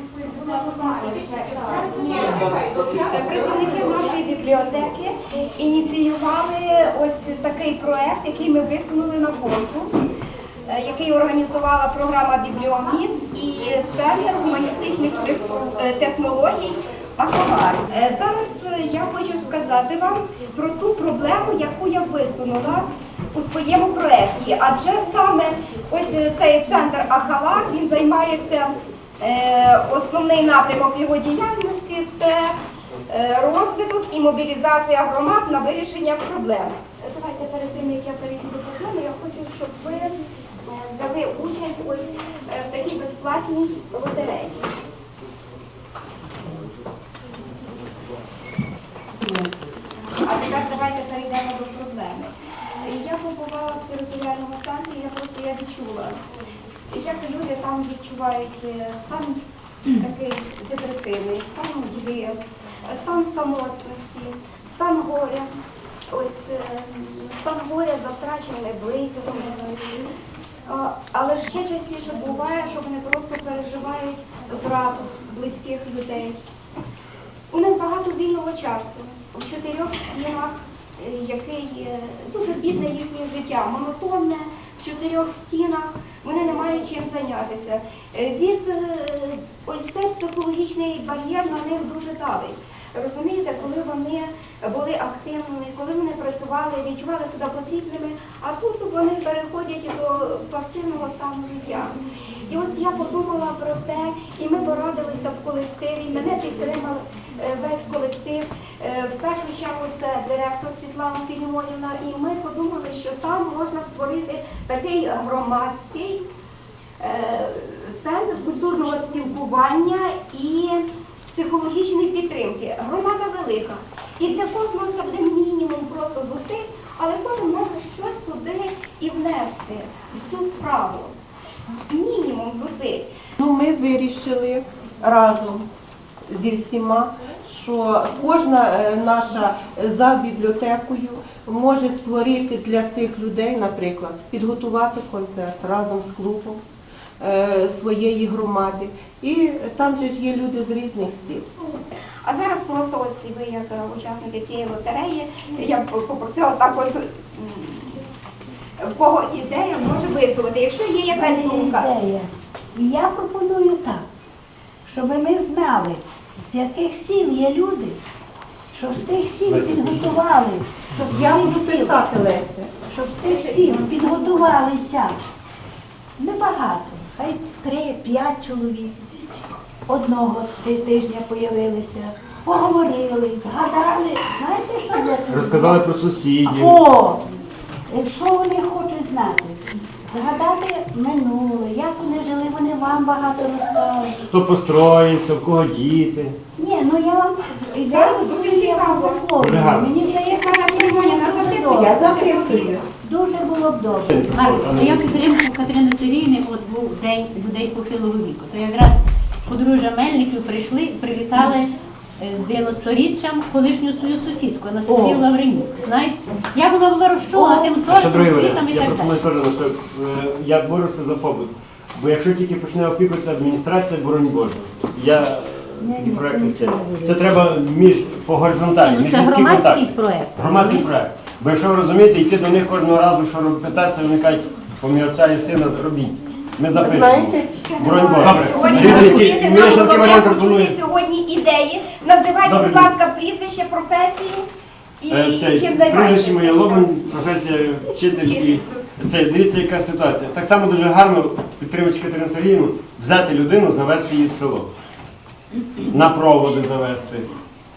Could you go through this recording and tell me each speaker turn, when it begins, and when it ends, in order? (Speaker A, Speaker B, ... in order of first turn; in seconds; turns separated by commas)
Speaker A: 0.3-2.5, Speaker B: 1.9-3.9, Speaker A: 3.1-10.0, Speaker A: 10.7-32.5, Speaker A: 33.1-44.7, Speaker A: 50.2-56.2, Speaker A: 56.9-62.4, Speaker A: 62.9-65.5, Speaker A: 66.1-69.9, Speaker A: 70.7-76.4, Speaker A: 77.5-116.2, Speaker A: 117.0-131.1, Speaker A: 131.9-133.1, Speaker B: 133.4-135.6, Speaker B: 136.3-146.6, Speaker B: 147.2-151.5, Speaker A: 152.2-158.0, Speaker A: 158.8-161.9, Speaker C: 161.1-164.0, Speaker C: 164.8-168.0, Speaker C: 168.7-172.0, Speaker D: 169.4-170.2, Speaker B: 171.1-172.7, Speaker C: 172.9-175.1, Speaker C: 176.2-178.9, Speaker C: 179.9-185.8, Speaker D: 185.3-186.8, Speaker C: 186.4-187.2, Speaker C: 187.9-194.2, Speaker D: 194.3-196.3, Speaker C: 196.6-202.0, Speaker A: 197.9-199.2, Speaker D: 199.4-199.9, Speaker A: 200.1-202.7, Speaker B: 201.8-202.8, Speaker C: 203.0-204.2, Speaker D: 204.1-205.4, Speaker E: 204.3-219.1, Speaker C: 214.9-215.2, Speaker C: 217.3-217.7, Speaker D: 217.8-240.8, Speaker C: 225.8-227.2, Speaker E: 228.9-230.8, Speaker B: 236.7-239.3, Speaker A: 237.6-244.5, Speaker D: 242.4-242.9, Speaker A: 245.0-246.9, Speaker D: 245.1-254.7, Speaker A: 248.2-248.8, Speaker D: 255.9-257.3